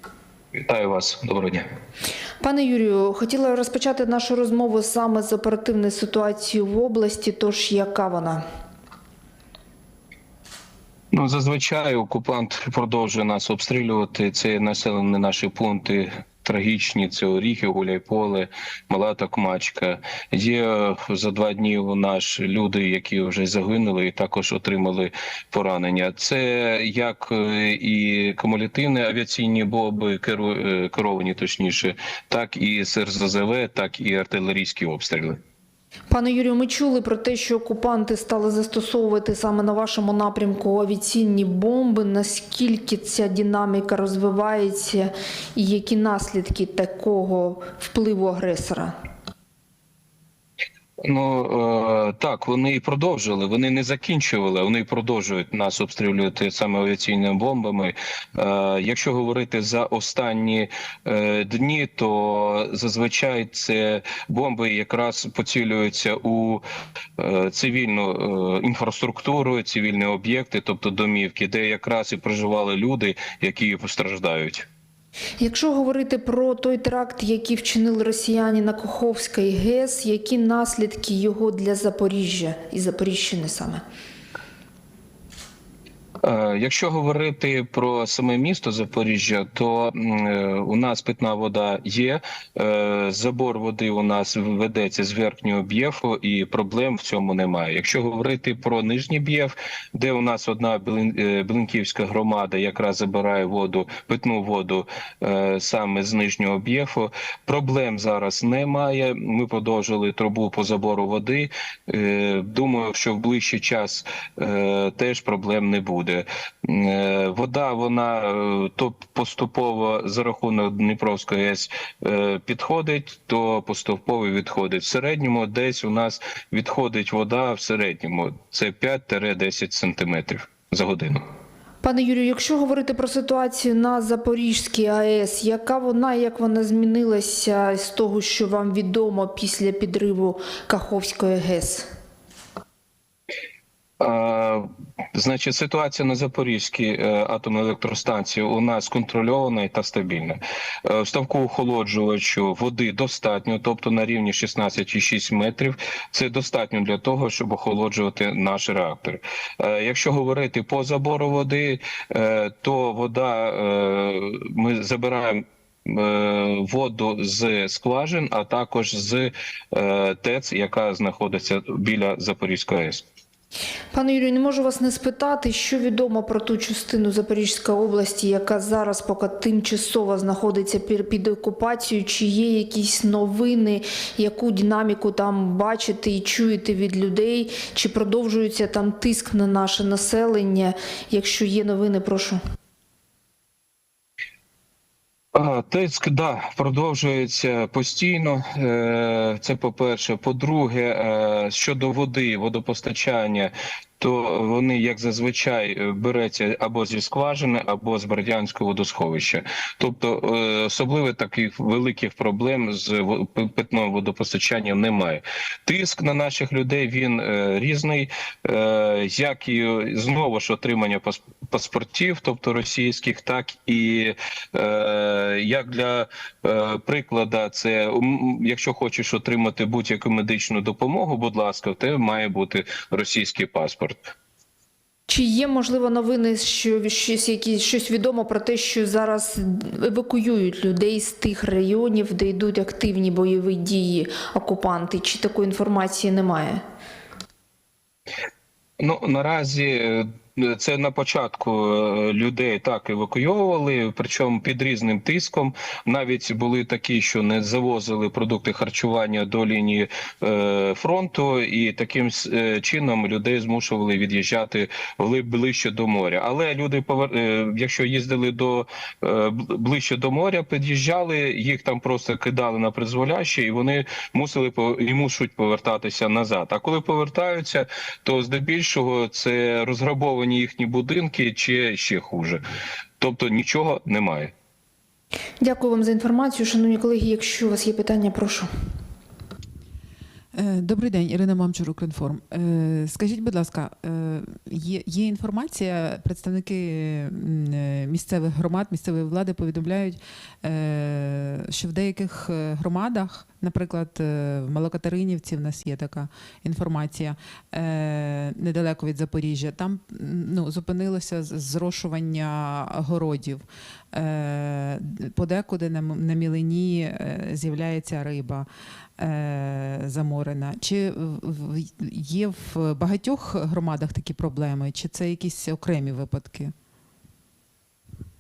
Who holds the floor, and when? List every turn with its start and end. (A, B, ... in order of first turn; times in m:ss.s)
0:00.5-0:01.7 A
0:02.4-0:08.4 B
0:11.1-0:35.4 A
0:36.1-0:49.0 B
0:51.0-1:06.6 A
1:07.2-1:14.7 A
1:15.4-1:23.8 B
1:26.2-2:11.2 A
2:11.8-2:21.9 B
2:24.0-2:53.0 A
2:53.9-3:12.4 B
3:15.4-3:54.1 A
3:55.1-4:06.6 B
4:08.8-4:42.4 A
4:43.0-4:44.3 A
4:45.4-4:48.5 B
4:50.3-5:18.5 C
5:19.0-5:26.5 C